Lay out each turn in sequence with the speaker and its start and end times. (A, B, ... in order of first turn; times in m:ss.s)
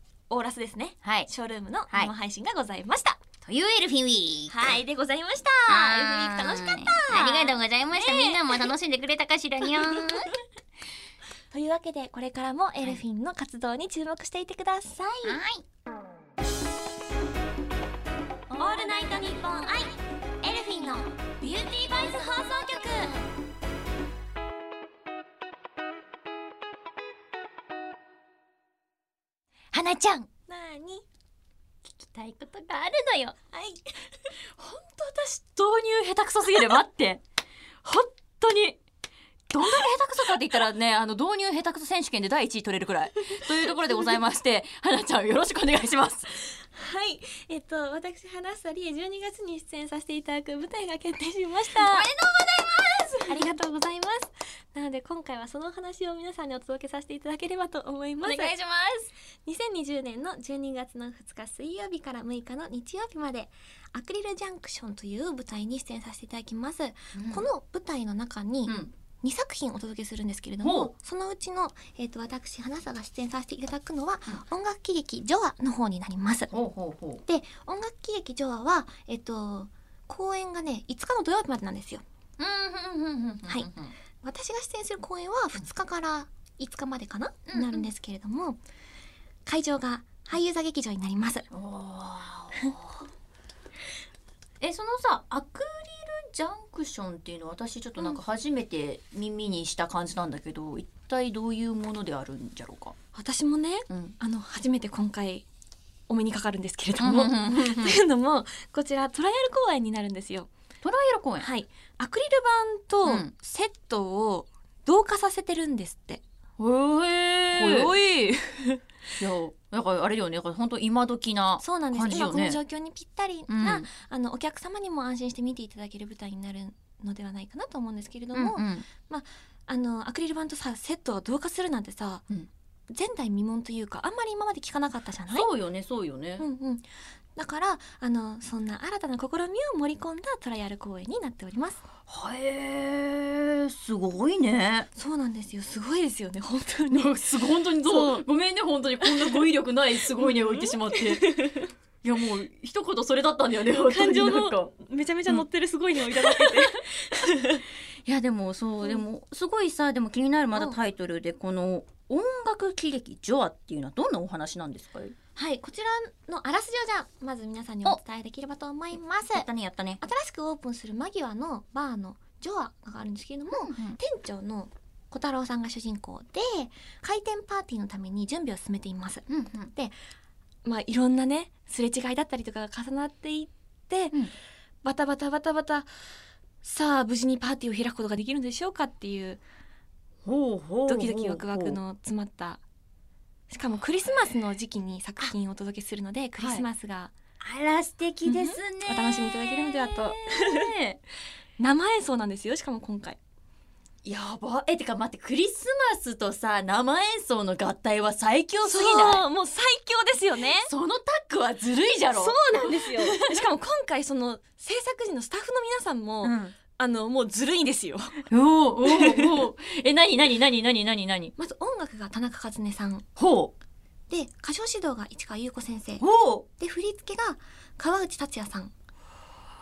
0:00.3-0:03.2 A
0:01.0-0:01.3 B
0:03.4-0:04.8 B
0:04.5-0:08.7 A
0:05.7-0:10.3 B
0:09.6-0:10.3 A
0:11.5-0:15.4 A
0:15.2-0:15.6 B
0:18.5-0:19.1 B
0:18.6-0:23.2 A
0:29.7-0:30.3 B
0:30.5-0:31.0 A
0:31.8-0:33.4 B
0:33.5-0:34.2 A
0:34.6-0:37.2 B
0:37.8-0:38.8 B
0:39.5-0:46.3 B
0:43.4-0:44.2 A
0:46.5-0:52.1 A
0:51.8-0:53.4 B
0:53.3-0:58.6 A
0:58.2-0:59.1 B
0:59.4-1:16.5 A
1:07.2-1:07.5 B
1:08.7-1:08.9 B
1:10.6-1:10.9 B
1:16.5-1:17.2 B
1:17.3-1:22.0 A
1:22.4-1:23.9 B
1:24.2-1:28.6 A
1:27.5-1:27.9 B
1:29.4-1:31.5 A
1:31.5-1:33.0 B
1:34.6-1:43.0 B
1:43.1-1:45.5 A
1:43.9-1:44.2 B
1:46.1-1:50.5 A
1:47.0-1:48.0 B
1:50.8-1:51.5 B
1:51.4-1:56.2 A
1:53.0-1:53.3 B
1:56.6-1:57.9 B
1:57.5-1:58.8 A
1:59.2-2:02.6 B
2:01.6-2:12.2 A
2:03.5-2:03.9 B
2:08.3-2:08.9 B
2:12.9-2:15.5 A
2:15.3-2:16.4 B
2:16.4-2:16.8 A
2:17.4-2:21.8 A
2:22.1-2:24.9 B
2:25.0-2:27.1 A
2:26.9-2:31.3 B
2:27.8-2:28.2 A
2:29.0-2:29.4 A
2:30.2-2:31.7 A
2:32.0-2:34.7 B
2:33.8-2:37.6 A
2:36.0-2:36.6 B
2:38.1-2:45.2 B
2:45.4-2:49.5 A
2:49.3-2:50.0 B
2:50.0-3:00.0 A
2:53.5-2:54.0 B
2:59.3-2:59.7 B
3:00.6-3:04.2 A
3:04.8-3:05.9 A
3:06.6-3:09.4 A
3:10.3-3:11.8 B
3:10.9-3:12.6 A
3:13.5-3:17.1 A
3:16.4-3:16.6 B
3:17.4-3:21.0 B
3:18.3-3:20.7 A
3:21.6-3:23.2 A
3:24.0-3:29.2 B
3:28.6-3:30.7 A
3:30.6-3:33.2 B
3:32.1-3:38.3 A
3:36.2-3:36.6 B
3:38.3-3:41.3 B
3:38.8-3:39.5 A
3:41.4-3:43.1 A
3:43.2-3:43.5 B
3:44.1-3:46.0 A
3:46.0-3:46.5 B
3:46.6-3:48.7 A